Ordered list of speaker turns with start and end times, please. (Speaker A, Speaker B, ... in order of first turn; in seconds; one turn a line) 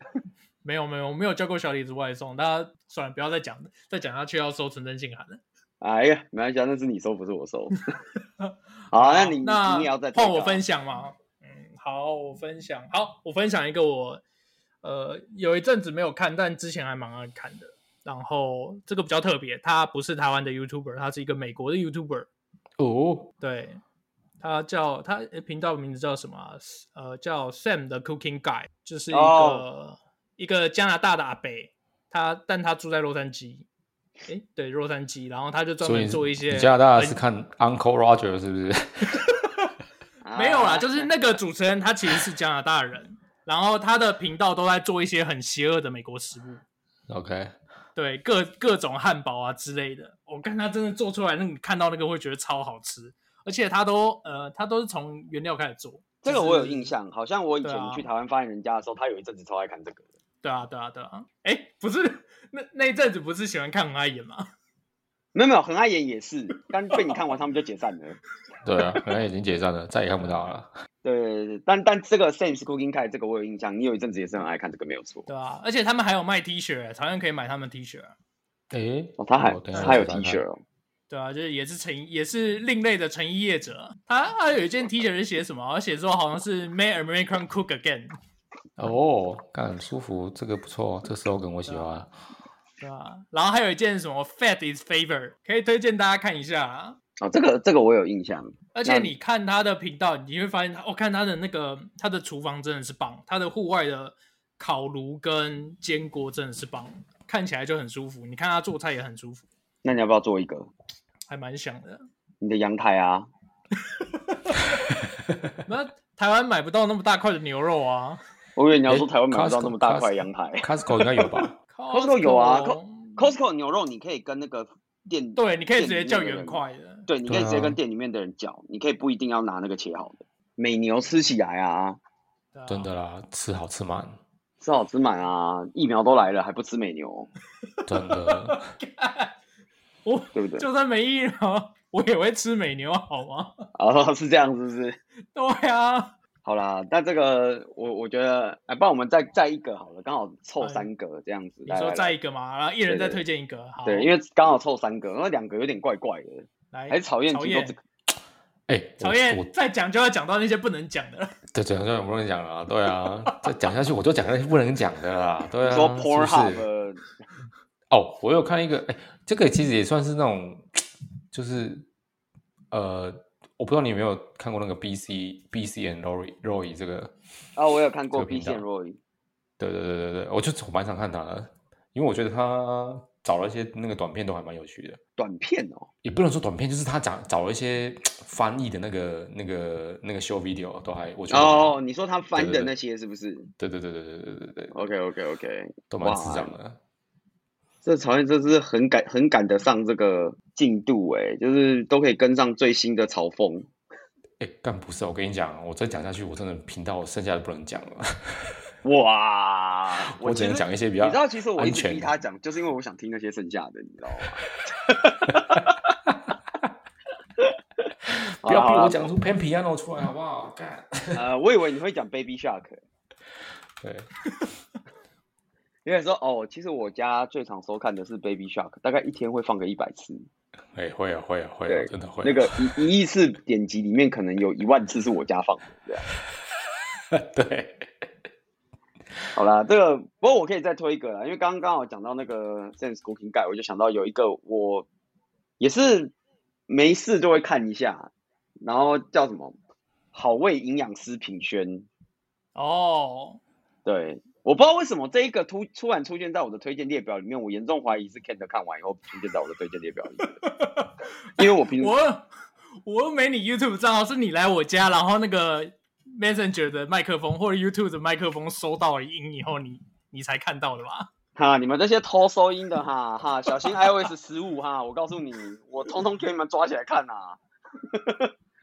Speaker A: 0.6-5.4
Speaker B: 5.8-7.8
Speaker A: 8.4-14.2
Speaker B: 8.9-10.6
Speaker A: 14.8-22.3
Speaker C: 22.8-23.3
Speaker A: 23.4-23.8
Speaker A: 24.4-33.6
Speaker B: 29.1-29.6
Speaker A: 34.3-37.2
Speaker C: 35.8-39.2
Speaker B: 40.2-41.1
Speaker A: 40.3-46.6
Speaker C: 47.1-47.5
Speaker A: 47.9-56.9
Speaker B: 56.2-60.0
Speaker A: 57.6-58.0
Speaker A: 60.4-64.5
Speaker B: 65.3-68.2
Speaker C: 68.6-70.7
Speaker B: 71.0-75.2
Speaker A: 75.2-78.1
Speaker C: 78.7-80.4
Speaker B: 79.2-80.6
Speaker A: 79.7-80.0
Speaker A: 81.1-88.1
Speaker C: 88.8-92.1
Speaker A: 92.8-97.0
Speaker B: 97.2-99.1
Speaker A: 98.7-109.5
Speaker B: 109.8-110.7
Speaker A: 111.3-112.0
Speaker B: 112.4-113.3
Speaker A: 113.9-114.7
Speaker A: 115.7-118.2
Speaker B: 118.6-120.7
Speaker C: 118.9-121.5
Speaker A: 121.7-123.2
Speaker B: 121.9-132.0
Speaker A: 125.3-127.1
Speaker C: 127.3-127.8
Speaker A: 132.5-132.9
Speaker C: 132.7-134.2
Speaker B: 134.6-137.3
Speaker C: 137.9-138.7
Speaker A: 137.9-139.3
Speaker A: 140.0-143.7
Speaker B: 140.3-140.7
Speaker B: 143.8-145.0
Speaker A: 145.3-146.1
Speaker B: 146.4-152.1
Speaker A: 150.6-150.9
Speaker A: 151.7-154.1
Speaker B: 152.9-153.2
Speaker B: 153.8-157.8
Speaker A: 156.7-157.7
Speaker C: 158.7-159.5
Speaker A: 159.0-161.4
Speaker C: 161.5-166.7
Speaker B: 165.6-167.1
Speaker C: 167.9-171.9
Speaker C: 172.7-177.1
Speaker B: 177.6-179.0
Speaker C: 178.1-178.6
Speaker C: 179.6-185.0
Speaker B: 185.2-185.9
Speaker C: 186.0-191.8
Speaker B: 191.3-193.5
Speaker C: 192.3-192.7
Speaker C: 193.6-194.8
Speaker B: 194.7-196.5
Speaker C: 195.9-196.8
Speaker B: 197.8-203.7
Speaker C: 204.4-208.6
Speaker B: 208.8-215.9
Speaker C: 210.1-212.1
Speaker C: 215.3-216.7
Speaker B: 217.4-219.1
Speaker C: 218.4-221.2
Speaker B: 221.1-222.8
Speaker C: 223.8-224.1
Speaker B: 225.8-230.3
Speaker C: 230.7-232.7
Speaker B: 231.7-236.1
Speaker C: 237.1-238.0
Speaker B: 239.3-244.9
Speaker B: 245.6-246.1
Speaker B: 246.7-248.1
Speaker B: 248.6-249.5
Speaker B: 250.1-251.8
Speaker A: 252.5-253.4
Speaker B: 253.8-260.3
Speaker A: 260.2-262.3
Speaker B: 261.4-261.9
Speaker A: 262.8-271.1
Speaker B: 271.4-277.4
Speaker B: 277.9-278.3